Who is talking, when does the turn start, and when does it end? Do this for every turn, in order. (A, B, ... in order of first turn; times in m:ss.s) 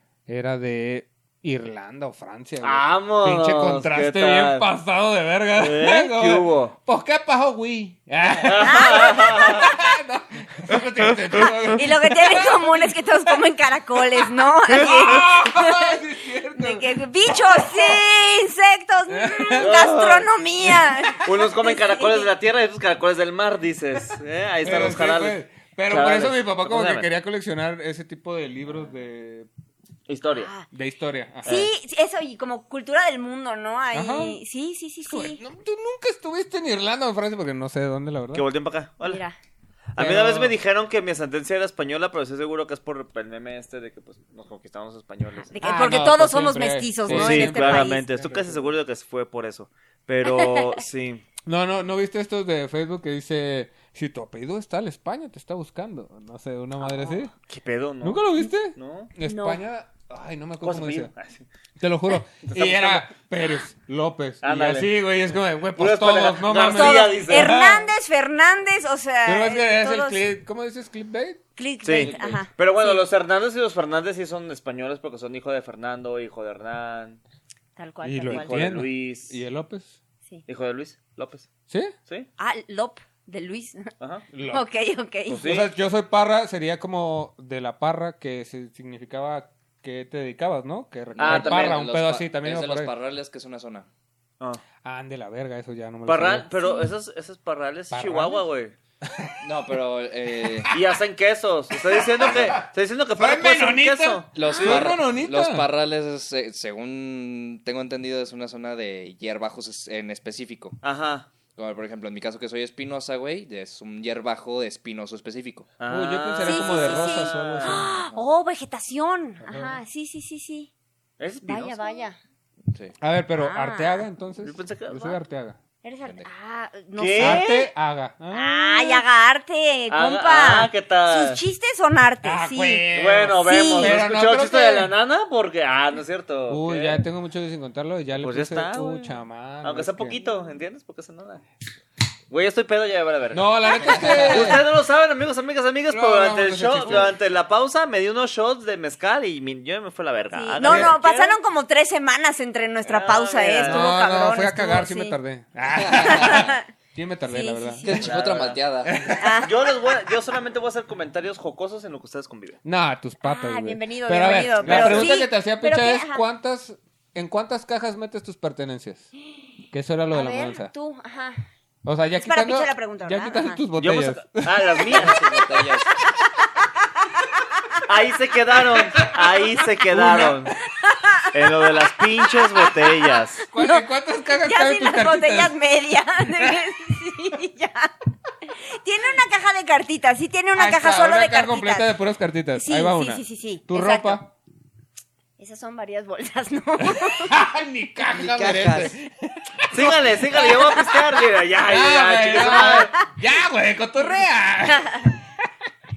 0:00.3-0:13.4 A
0:02.6-0:04.6 B
0:05.6-0:06.7 B
0:08.4-0:09.7 B
0:08.6-0:09.7 C
0:11.0-0:11.7 B
0:11.7-0:16.0 C
0:14.0-0:18.0 A
0:16.5-0:22.3 C
0:19.1-0:19.7 A
0:19.6-0:20.2 B
0:20.7-0:21.1 A
0:21.2-0:25.4 B
0:24.6-0:29.5 A
0:25.9-0:27.1 B
0:30.1-0:30.5 B
0:30.3-0:30.6 C
0:30.7-0:31.6 A
0:31.4-0:35.4 C
0:33.9-0:34.4 A
0:35.0-0:38.4 A
0:38.3-0:39.2 B
0:39.0-0:39.3 C
0:39.9-0:45.6 B
0:40.0-0:40.6 A
0:45.5-0:48.0 C
0:45.6-0:48.7 A
0:47.1-0:51.2 B
0:50.2-0:50.7 C
0:51.4-0:57.3 A
0:56.8-0:57.2 C
0:57.5-0:59.1 B
0:58.0-1:01.1 A
0:59.2-0:59.6 C
1:00.6-1:01.4 B
1:01.8-1:07.9 A
1:02.4-1:03.1 B
1:04.4-1:04.9 B
1:05.8-1:07.5 B
1:06.7-1:10.2 C
1:09.2-1:11.4 A
1:11.6-1:13.0 C
1:11.8-1:17.2 B
1:12.0-1:12.4 D
1:17.8-1:18.6 C
1:18.0-1:20.0 A
1:18.3-1:19.4 B
1:20.5-1:21.5 B
1:21.7-1:21.9 A
1:22.4-1:23.9 C
1:24.0-1:24.2 B
1:24.3-1:24.6 A
1:24.5-1:25.4 C
1:25.3-1:25.7 B
1:25.4-1:32.9 A
1:31.2-1:33.9 D
1:31.2-1:31.8 B
1:34.8-1:36.5 A
1:36.0-1:38.7 B
1:36.6-1:36.9 C
1:37.9-1:38.4 A
1:39.0-1:39.4 A
1:39.4-1:40.7 D
1:40.3-1:40.8 A
1:40.7-1:45.0 B
1:41.7-1:45.7 A
1:44.3-1:50.8 D
1:50.8-1:51.3 B
1:51.6-1:55.7 D
1:55.8-1:57.8 B
1:55.9-1:57.9 A
1:56.4-2:00.7 C
1:57.9-1:58.2 D
1:59.4-1:59.8 A
2:01.2-2:02.0 B
2:01.4-2:02.2 C
2:02.7-2:02.9 D
2:03.0-2:05.6 A
2:03.3-2:04.0 C
2:04.4-2:05.2 B
2:05.8-2:07.5 C
2:07.0-2:07.7 B
2:07.2-2:09.0 A
2:08.3-2:14.0 C
2:09.9-2:11.4 B
2:12.2-2:14.9 A
2:12.9-2:17.0 B
2:16.5-2:20.2 A
2:18.2-2:21.4 B
2:22.3-2:31.4 B
2:23.3-2:24.6 A
2:23.6-2:24.6 C
2:25.9-2:27.2 A
2:30.3-2:35.2 C
2:30.6-2:31.0 A
2:32.8-2:33.9 B
2:33.6-2:38.0 A
2:35.8-2:36.5 D
2:36.0-2:36.6 C
2:37.3-2:38.0 C
2:37.8-2:39.0 D
2:38.0-2:38.6 B
2:38.8-2:39.5 A
2:39.2-2:39.5 C
2:39.4-2:42.6 B
2:42.6-2:49.1 A
2:43.2-2:46.2 C
2:44.5-2:45.2 B
2:49.7-2:50.7 A
2:50.1-2:51.4 C
2:51.8-2:54.8 A
2:52.2-2:53.6 C
2:53.8-2:55.2 B
2:54.9-2:55.9 D
2:56.0-2:57.4 C
2:57.9-3:00.5 B
2:59.9-3:00.5 A
3:00.8-3:01.3 C
3:01.3-3:03.4 B
3:02.3-3:03.0 C
3:03.5-3:05.5 A
3:03.5-3:07.9 C
3:08.6-3:11.9 C
3:10.5-3:14.3 A
3:12.6-3:14.2 C
3:15.4-3:17.4 C
3:16.8-3:20.9 A
3:18.1-3:19.0 D
3:19.7-3:22.9 B
3:20.3-3:21.0 C
3:21.6-3:25.5 A
3:22.3-3:23.1 C
3:24.8-3:25.1 C